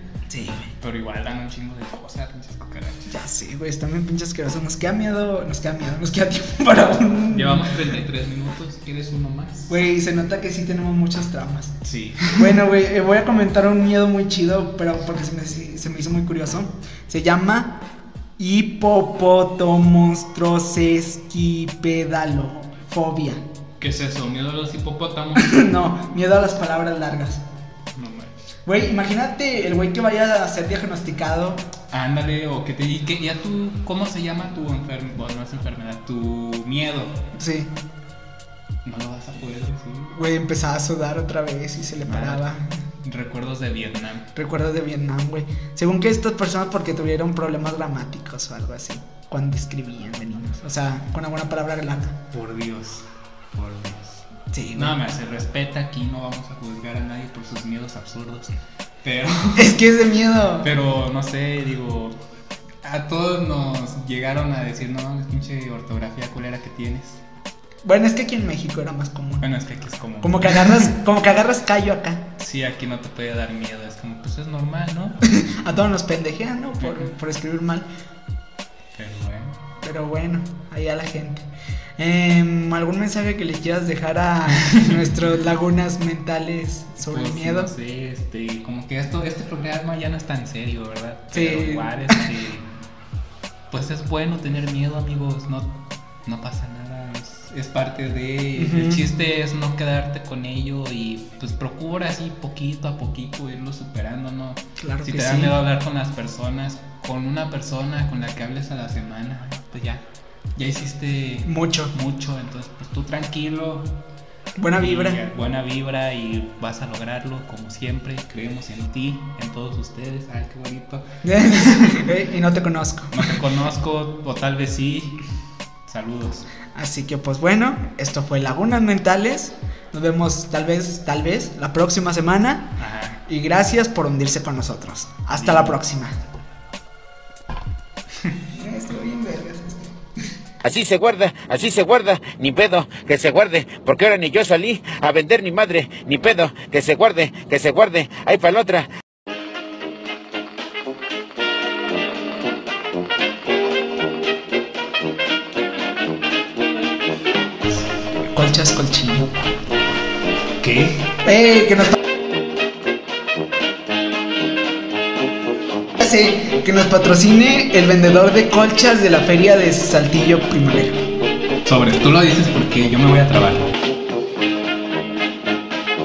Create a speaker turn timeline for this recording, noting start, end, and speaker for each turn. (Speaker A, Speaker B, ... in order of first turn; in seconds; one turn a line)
Speaker A: 0.3-0.7
Speaker B: 0.8-3.1
Speaker A: 3.1-7.9
Speaker B: 7.3-9.7
Speaker A: 9.7-11.7
Speaker B: 11.8-12.6
Speaker A: 12.3-17.8
Speaker A: 18.4-23.4
Speaker B: 23.8-25.6
Speaker A: 25.4-27.4
Speaker B: 27.9-28.4
Speaker A: 28.7-31.7
Speaker B: 31.9-37.2
Speaker A: 37.4-37.7
Speaker B: 38.9-40.2
Speaker A: 40.1-42.8
Speaker B: 42.0-42.5
Speaker B: 43.0-44.3
Speaker A: 44.4-52.2
Speaker B: 52.3-59.8
Speaker A: 54.5-55.0
Speaker A: 59.6-60.7
Speaker B: 60.6-62.2
Speaker B: 62.8-67.2
Speaker A: 67.8-69.5
Speaker B: 69.4-70.9
Speaker A: 70.2-72.3
Speaker B: 72.4-75.3
Speaker A: 75.2-77.9
Speaker B: 76.8-77.1
Speaker B: 79.0-79.6
Speaker A: 79.8-87.7
Speaker B: 84.6-85.0
Speaker B: 87.0-92.7
Speaker A: 91.3-92.2
Speaker B: 93.7-110.0
Speaker A: 98.6-99.1
Speaker A: 104.8-105.6
Speaker B: 110.6-113.9
Speaker A: 111.5-111.9
Speaker A: 114.6-115.2
Speaker B: 114.8-122.0
Speaker A: 121.2-123.4
Speaker B: 123.1-125.2
Speaker B: 125.9-126.5
Speaker A: 126.8-136.2
Speaker B: 132.8-133.2
Speaker B: 135.3-135.8
Speaker A: 138.5-140.0
Speaker C: 140.6-148.9
Speaker A: 158.3-159.5
Speaker B: 160.6-161.1
Speaker A: 161.2-162.0
Speaker A: 166.0-171.0
Speaker B: 171.7-173.7